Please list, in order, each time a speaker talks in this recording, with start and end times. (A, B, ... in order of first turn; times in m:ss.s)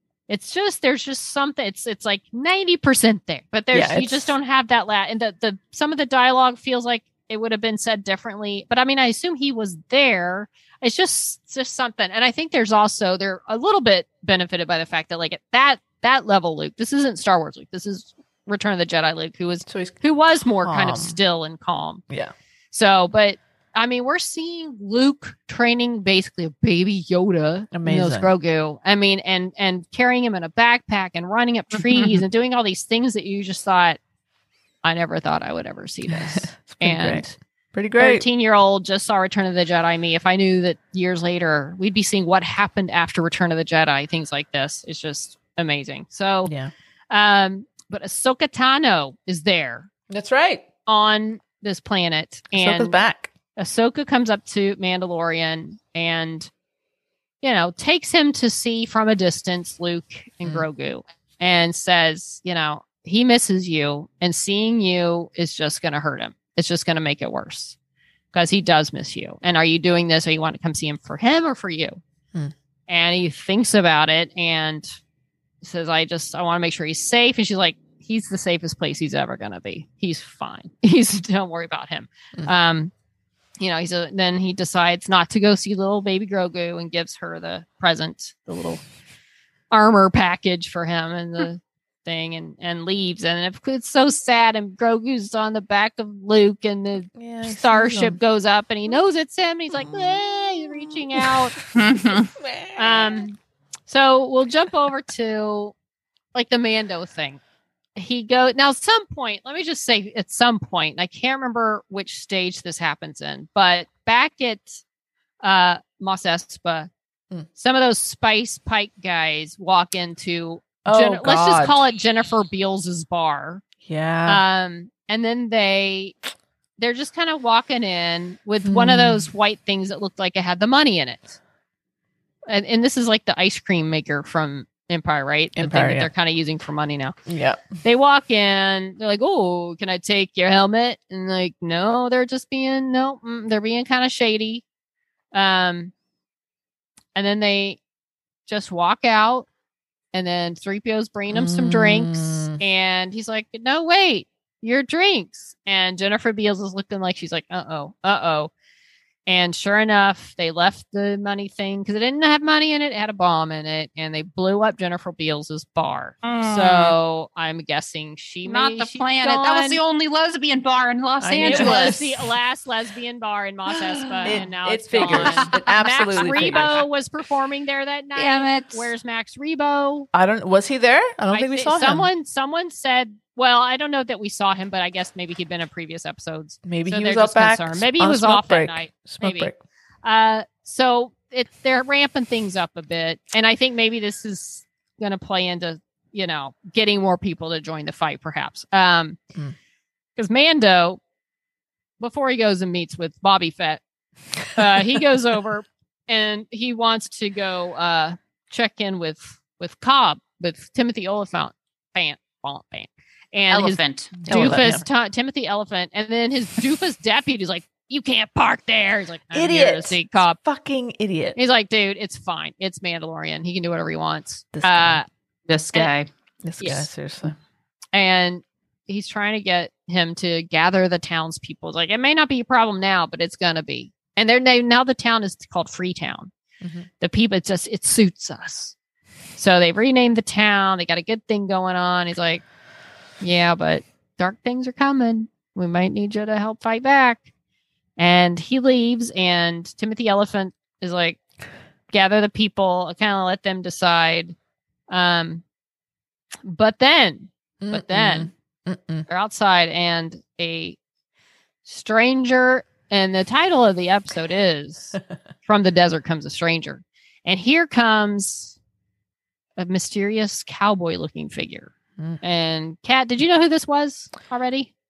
0:00.3-0:22.0 A
0:03.7-0:04.3 B
0:19.7-0:20.0 B
0:20.6-0:21.2 B
0:22.7-0:34.0 A
0:27.7-0:28.3 B
0:31.8-0:32.2 C
0:34.8-0:37.3 A
0:36.1-0:38.3 B
0:38.0-0:46.5 A
0:46.4-0:46.7 B
0:47.1-0:49.9 A
0:50.1-0:50.6 B
0:50.8-0:53.0 A
0:52.5-0:53.3 B
0:53.6-0:56.5 A
0:57.4-1:07.8 A
1:08.3-1:12.0 A
1:12.9-1:14.9 A
1:15.6-1:22.9 A
1:23.6-1:28.8 A
1:29.7-1:41.6 A
1:37.1-1:38.2 B
1:39.8-1:40.2 B
1:41.7-1:42.3 C
1:42.1-1:43.2 B
1:42.8-1:45.7 A
1:46.3-1:47.4 A
1:48.0-1:54.8 A
1:55.4-1:56.9 A
1:57.5-2:03.6 A
2:00.8-2:01.8 B
2:03.8-2:04.4 B
2:04.2-2:06.2 A
2:06.8-2:11.4 A
2:08.6-2:09.3 B
2:12.5-2:17.2 A
2:15.6-2:16.1 B
2:17.3-2:17.7 B
2:17.8-2:24.6 A
2:25.3-2:25.9 A
2:27.1-2:27.8 A
2:28.4-2:29.5 A
2:30.1-2:38.5 A
2:31.3-2:32.6 B
2:39.2-2:49.8 A
2:46.2-2:47.0 C
2:48.4-2:52.0 C
2:51.2-2:52.2 B
2:51.4-3:00.1 A
2:53.9-2:54.4 C
2:54.2-2:56.8 B
2:55.0-2:56.8 C
2:58.2-2:58.9 C
3:00.1-3:02.1 B
3:01.3-3:09.5 A
3:06.6-3:09.6 B
3:10.0-3:19.2 A
3:20.2-3:21.0 A
3:22.0-3:23.8 A
3:24.5-3:40.4 A
3:33.5-3:34.6 C
3:34.2-3:34.8 B
3:39.3-3:41.4 B
3:41.3-3:45.1 A
3:44.5-3:45.0 B
3:45.5-3:46.1 C
3:46.4-3:47.3 B
3:46.6-3:46.8 A
3:47.9-3:56.3 A
3:56.6-3:56.9 B
3:57.0-3:58.8 A
3:59.4-4:02.4 A
4:03.2-4:07.2 A
4:08.0-4:11.2 A
4:11.9-4:14.4 A
4:14.9-4:15.4 A
4:16.4-4:18.3 A
4:17.6-4:19.0 B
4:19.1-4:20.8 A
4:21.6-4:28.6 A
4:29.6-4:34.7 A